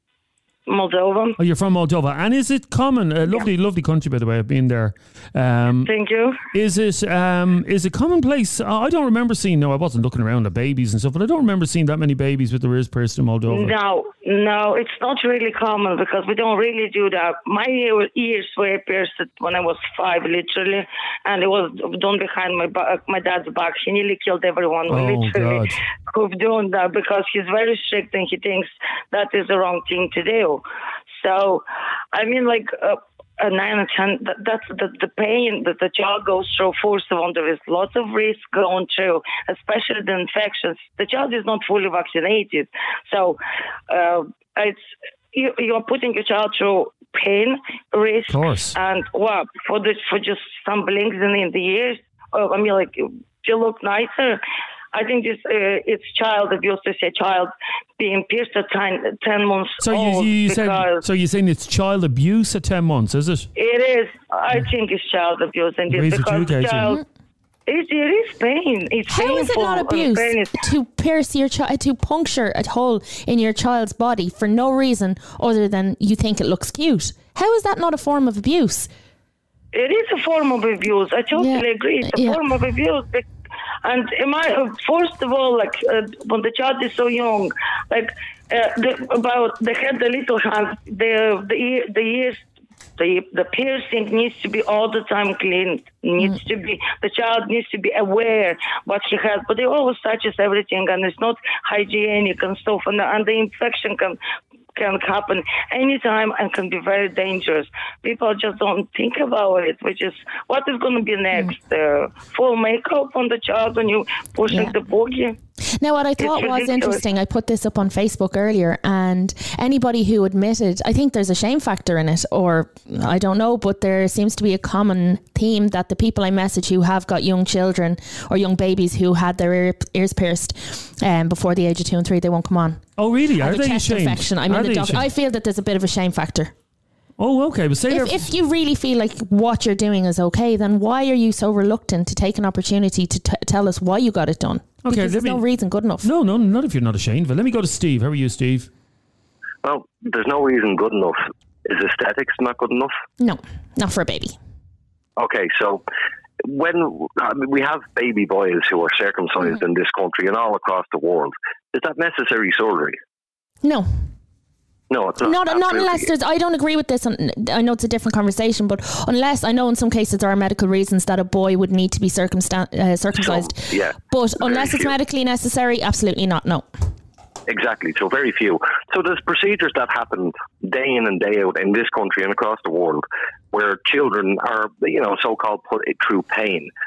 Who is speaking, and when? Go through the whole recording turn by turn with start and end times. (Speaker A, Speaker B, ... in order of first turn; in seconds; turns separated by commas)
Speaker A: 0.7-1.4, Speaker B: 1.4-5.9, Speaker A: 5.8-6.4, Speaker B: 6.5-13.8, Speaker A: 13.5-30.6, Speaker B: 24.9-25.8, Speaker A: 31.2-43.4, Speaker A: 43.9-54.4, Speaker B: 48.3-48.8, Speaker A: 54.9-61.0, Speaker B: 59.8-63.5, Speaker A: 63.5-67.0, Speaker B: 65.9-66.9, Speaker A: 67.7-70.6, Speaker C: 69.1-78.9, Speaker A: 79.7-83.2, Speaker C: 81.3-82.4, Speaker A: 83.8-92.4, Speaker A: 93.0-104.2, Speaker A: 104.8-115.4, Speaker C: 114.5-114.8, Speaker C: 115.8-132.8, Speaker A: 116.2-117.0, Speaker B: 133.0-135.1, Speaker C: 133.4-136.5, Speaker B: 137.2-138.3, Speaker C: 137.9-146.1, Speaker B: 144.8-145.4, Speaker B: 146.0-148.7, Speaker D: 149.6-152.9, Speaker C: 153.2-154.4, Speaker D: 155.2-155.8, Speaker D: 156.4-163.0, Speaker C: 163.6-163.9, Speaker D: 164.9-166.1, Speaker C: 165.2-176.7, Speaker D: 173.2-174.9, Speaker D: 177.5-186.7